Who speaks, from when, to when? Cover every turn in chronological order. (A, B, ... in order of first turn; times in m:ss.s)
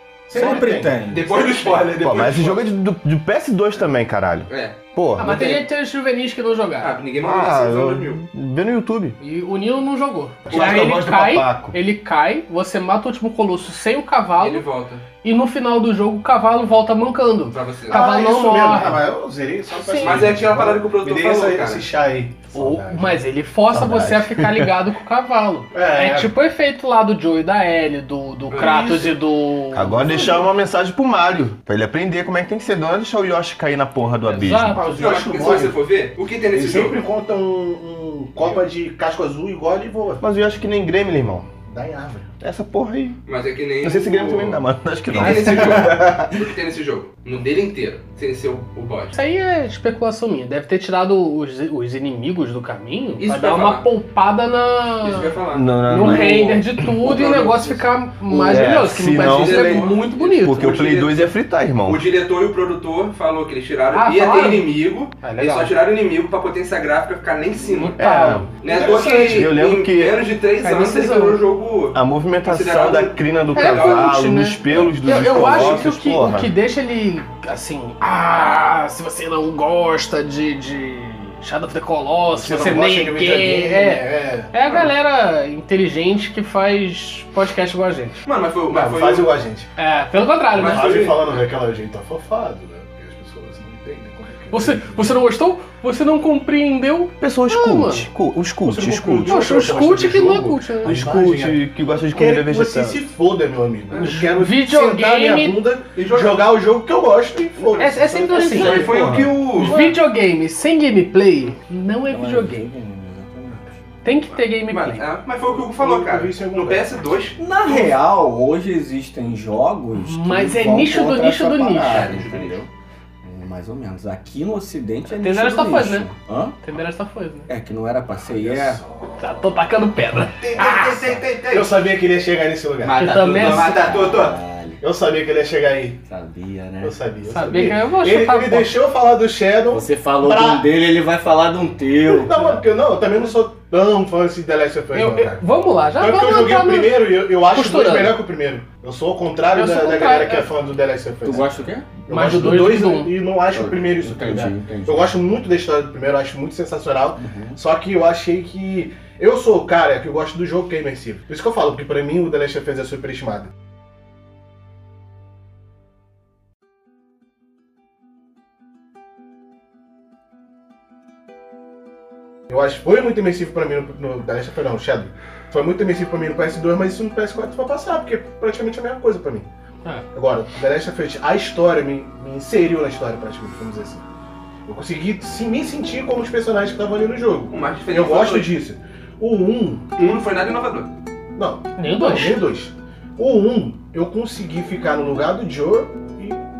0:00.3-0:01.0 A
0:00.3-0:01.3 B
0:00.4-0:00.7 C
0:01.1-0:02.6 D
0:02.0-0:05.3 E
0:04.5-0:05.6 D
0:05.2-0:07.0 C
0:06.8-0:08.2 D
0:07.2-0:09.2 E
0:09.2-0:14.6 C
0:10.5-0:11.8 E
0:10.5-0:10.8 D
0:14.4-0:15.0 D
0:15.2-0:19.0 C
0:17.5-0:18.0 D
0:17.9-0:23.2 A
0:19.8-0:20.3 C
0:20.0-0:21.9 D
0:22.5-0:30.4 C
0:23.7-0:24.7 E
0:25.7-0:26.3 A
0:28.5-0:29.1 D
0:28.6-0:29.0 A
0:29.7-0:34.8 E
0:30.1-0:30.5 A
0:34.3-0:35.0 C
0:34.7-0:35.8 A
0:34.9-0:37.0 D
0:36.5-0:40.2 A
0:40.2-0:41.5 E
0:41.6-0:42.3 A
0:42.4-0:43.2 E
0:43.3-0:49.2 D
0:43.8-0:46.4 E
0:45.5-0:45.9 C
0:49.1-1:00.8 C
0:53.2-0:53.8 D
0:55.0-1:01.3 D
0:55.5-0:56.8 E
0:58.4-1:02.1 E
1:01.8-1:08.0 D
1:03.9-1:05.7 C
1:07.6-1:09.2 C
1:08.0-1:10.2 E
1:08.6-1:14.2 D
1:08.7-1:09.5 A
1:10.6-1:11.4 C
1:11.9-1:16.5 E
1:13.5-1:28.2 C
1:15.1-1:15.9 D
1:22.4-1:24.5 A
1:28.2-1:29.4 D
1:28.7-1:29.7 A
1:29.8-1:31.1 C
1:30.5-1:31.4 D
1:30.6-1:35.2 A
1:34.5-1:38.1 C
1:37.2-1:39.4 E
1:38.7-1:50.0 A
1:39.3-1:41.0 C
1:40.8-1:43.1 E
1:43.9-1:44.2 D
1:44.0-1:45.6 C
1:46.0-1:46.4 D
1:47.8-1:48.8 C
1:48.4-1:49.8 D
1:48.8-1:49.2 E
1:49.6-1:52.7 C
1:52.1-1:53.8 B
1:54.0-1:55.1 C
1:54.7-1:57.9 D
1:55.5-1:56.9 A
1:57.4-2:02.7 B
1:59.9-2:02.2 C
2:01.8-2:02.6 D
2:03.2-2:06.6 B
2:05.1-2:06.1 C
2:06.6-2:07.5 C
2:07.5-2:08.8 B
2:08.1-2:09.0 A
2:09.2-2:11.1 C
2:10.4-2:11.8 D
2:10.6-2:14.2 A
2:12.8-2:14.4 D
2:12.9-2:13.8 C
2:13.1-2:14.8 B
2:14.8-2:16.0 A
2:16.0-2:17.0 B
2:16.8-2:20.7 A
2:17.2-2:18.8 C
2:19.7-2:22.6 B
2:22.0-2:25.4 A
2:24.9-2:28.2 C
2:26.0-2:43.5 A
2:29.5-2:30.5 C
2:31.2-2:32.5 B
2:32.1-2:33.2 C
2:33.5-2:35.1 B
2:37.2-2:37.6 B
2:52.5-2:59.5 A
3:00.1-3:04.0 A
3:04.7-3:09.8 A
3:07.5-3:08.5 D
3:10.0-3:10.9 D
3:11.4-3:16.4 A
3:11.8-3:12.4 C